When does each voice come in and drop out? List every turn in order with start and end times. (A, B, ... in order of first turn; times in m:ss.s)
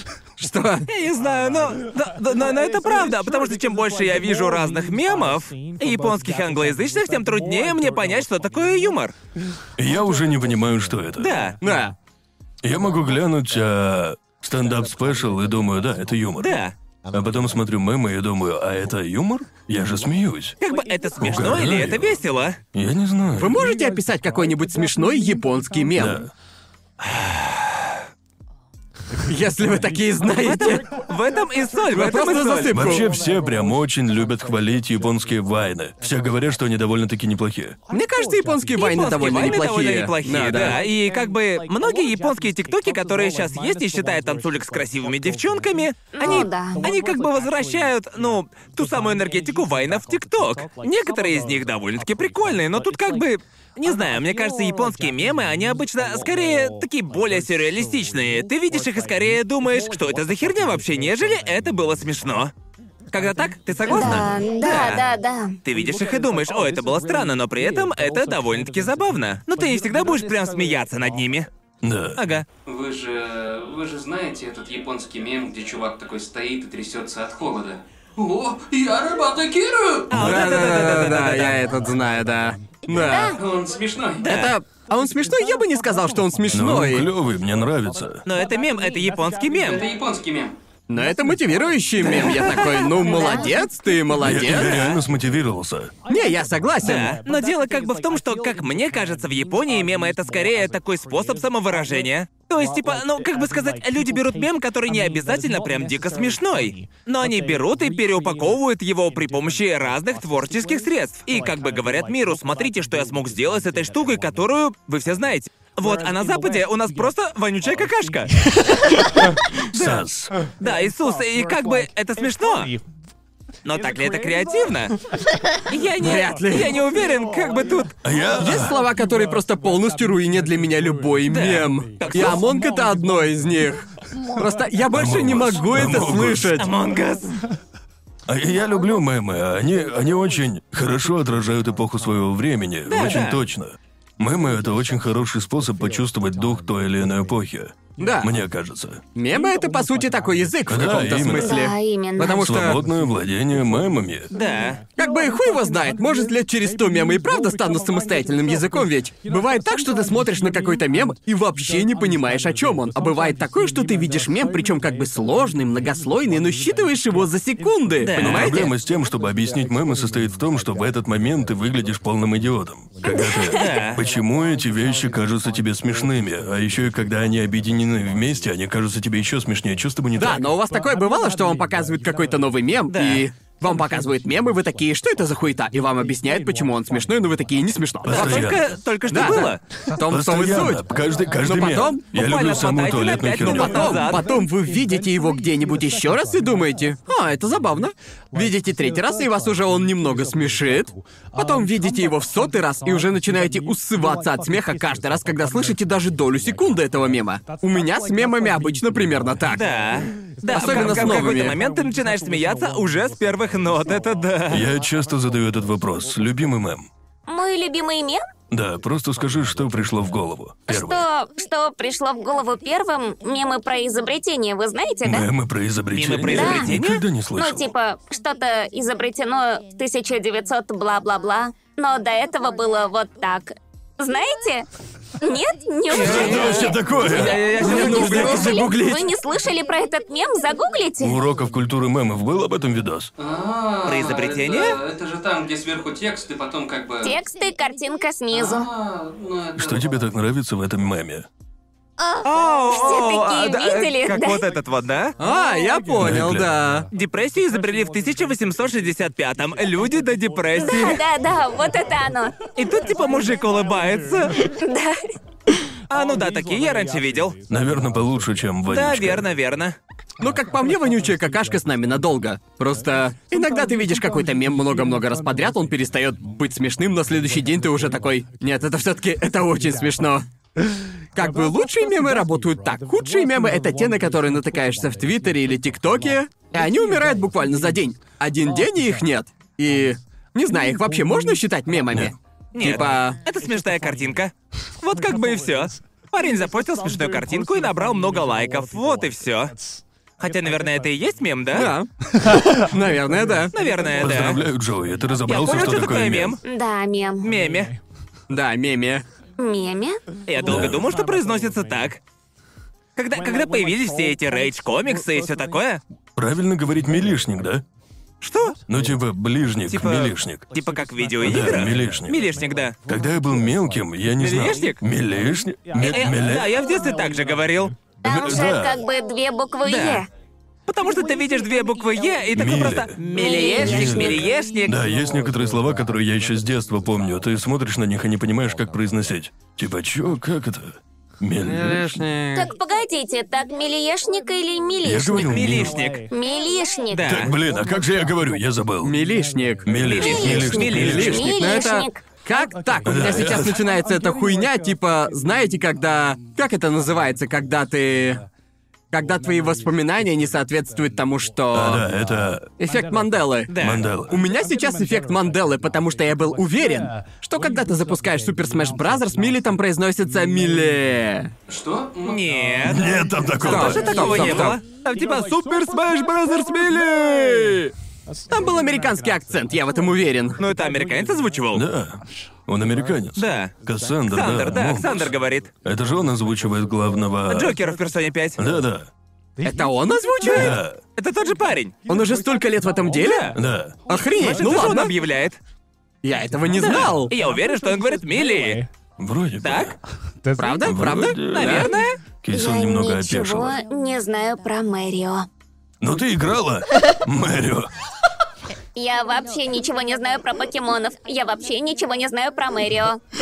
0:00.4-0:00.9 A
0:00.9-0:09.1 B
0:09.8-0:11.3 C
0:11.2-0:11.6 B
0:11.6-0:12.0 A
0:12.6-0:16.6 C
0:16.4-0:16.7 B
0:17.1-0:20.6 C
0:20.6-0:22.6 B
0:21.2-0:22.2 C
0:22.7-0:23.6 C
0:23.4-0:26.2 A
0:26.0-0:26.3 C
0:27.1-0:27.4 B
0:29.3-0:30.9 A
0:30.3-0:33.0 B
0:31.9-0:33.1 A
0:32.7-0:37.8 C
0:37.9-0:40.8 A
0:38.8-1:02.5 B
0:46.2-0:46.8 D
1:03.1-1:05.0 B
1:03.9-1:05.6 D
1:04.0-1:04.3 C
1:05.6-1:11.5 B
1:11.8-1:12.2 C
1:12.2-1:12.5 B
1:12.7-1:20.2 E
1:20.1-1:21.7 B
1:20.1-1:23.4 A
1:22.9-1:23.4 D
1:23.3-1:24.3 E
1:24.2-1:24.6 B
1:24.3-1:27.1 A
1:26.5-1:28.2 C
1:28.3-1:29.8 B
1:29.6-1:30.5 E
1:30.9-1:34.8 A
1:32.0-1:32.8 B
1:32.8-1:33.5 D
1:34.2-1:35.9 C
1:34.4-1:35.0 B
1:36.1-1:37.2 A
1:36.8-1:58.3 B
1:59.7-2:00.1 B
1:59.7-2:00.3 C
2:00.6-2:02.8 B
2:03.6-2:05.0 B
2:05.7-2:08.0 B
2:06.0-2:06.8 A
2:08.0-2:08.8 C
2:08.4-2:16.7 A
2:11.3-2:12.5 B
2:14.9-2:16.6 C
2:16.6-2:17.4 B
2:18.3-2:29.0 C
2:22.9-2:23.4 B
2:28.0-2:28.3 A
2:29.2-2:32.8 A
2:30.6-2:31.7 C
2:31.4-2:32.6 D
2:32.4-2:34.3 C
2:34.3-2:34.8 B
2:35.0-2:48.7 A
2:48.0-2:48.6 B
2:48.2-3:00.5 C
2:53.0-2:53.7 D
2:53.5-2:54.0 B
3:00.2-3:08.6 A
3:02.9-3:03.2 B
3:08.0-3:08.6 C
3:08.1-3:09.6 B
3:09.1-3:10.8 A
3:10.0-3:14.0 C
3:11.4-3:12.0 A
3:12.1-3:14.2 B
3:13.4-3:29.6 A
3:29.5-3:34.7 B
3:30.5-3:31.6 A
3:34.5-3:36.9 C
3:37.3-3:38.2 D
3:38.5-3:41.0 C
3:40.7-3:45.3 D
3:45.0-3:47.7 C
3:45.9-3:47.0 B
3:46.3-3:46.7 D
3:47.4-3:54.7 D
3:55.2-3:56.8 D
3:55.9-3:57.6 C
3:55.9-3:58.7 B
3:56.1-3:59.1 A
3:57.6-4:01.2 D
4:01.0-4:03.1 C
4:03.2-4:07.2 E
4:03.8-4:04.8 B
4:07.0-4:08.7 D
4:08.3-4:09.8 E
4:09.6-4:11.3 C
4:12.2-4:15.1 B
4:12.7-4:14.4 D
4:15.2-4:16.9 A
4:16.0-4:16.5 C
4:16.9-4:21.0 B
4:20.6-4:22.4 D
4:22.6-4:24.5 B
4:24.5-4:25.1 D
4:25.9-4:27.4 B
4:27.5-4:29.3 C
4:28.7-4:29.8 B
4:30.2-4:40.3 A
4:41.1-4:53.2 A
4:52.5-4:59.6 B
5:00.2-5:01.7 B
5:01.5-5:03.5 A
5:03.5-5:04.4 B
5:04.0-5:06.4 C
5:05.3-5:06.4 B
5:06.4-5:07.3 D
5:07.2-5:07.7 B
5:08.3-5:09.0 A
5:09.4-5:10.0 D
5:10.3-5:12.0 B
5:10.4-5:10.9 C
5:13.0-5:15.8 B
5:16.2-5:17.6 C
5:18.2-5:18.6 B
5:18.7-5:20.5 C
5:19.7-5:22.8 B
5:21.2-5:22.2 C
5:22.9-5:26.5 C
5:24.2-5:24.8 B
5:25.8-5:27.8 B
5:28.0-5:30.1 D
5:28.0-5:28.8 C
5:29.6-5:30.0 B
5:30.7-5:34.8 B
5:32.4-5:33.0 C
5:33.1-5:34.2 D
5:33.6-5:42.0 C
5:41.4-5:42.5 A
5:42.3-5:45.3 D
5:44.8-5:45.8 C
5:45.2-5:46.0 B
5:46.1-5:47.3 D
5:46.9-5:47.3 B
5:47.1-5:48.9 C
5:48.8-5:58.2 A
5:49.6-5:51.3 C
5:49.8-5:51.3 B
5:49.9-5:52.0 D
5:52.8-5:53.6 C
5:58.9-6:01.8 A
6:01.5-6:02.5 C
6:02.6-6:03.5 A
6:03.5-6:03.8 B
6:03.6-6:04.2 C
6:04.1-6:11.3 A
6:11.5-6:12.2 E
6:12.0-6:12.9 B
6:12.6-6:14.5 C
6:13.4-6:17.0 B
6:13.4-6:14.6 A
6:16.2-6:17.7 A
6:18.3-6:20.4 A
6:20.4-6:21.6 B
6:21.5-6:27.6 C
6:23.2-6:23.6 B
6:24.1-6:25.5 B
6:27.3-6:28.4 B
6:28.4-6:28.9 C
6:29.4-6:30.6 A
6:30.2-6:31.8 B
6:30.3-6:30.8 C
6:31.9-6:34.9 A
6:33.0-6:33.4 B
6:33.3-6:33.8 C
6:33.9-6:35.4 B
6:36.0-6:37.1 A
6:36.6-6:38.6 B
6:39.0-6:39.8 C
6:39.4-6:39.7 B
6:40.4-6:41.8 A
6:40.6-6:43.6 C
6:41.3-6:42.0 B
6:42.3-6:45.3 D
6:45.8-6:47.7 C
6:48.8-6:53.0 D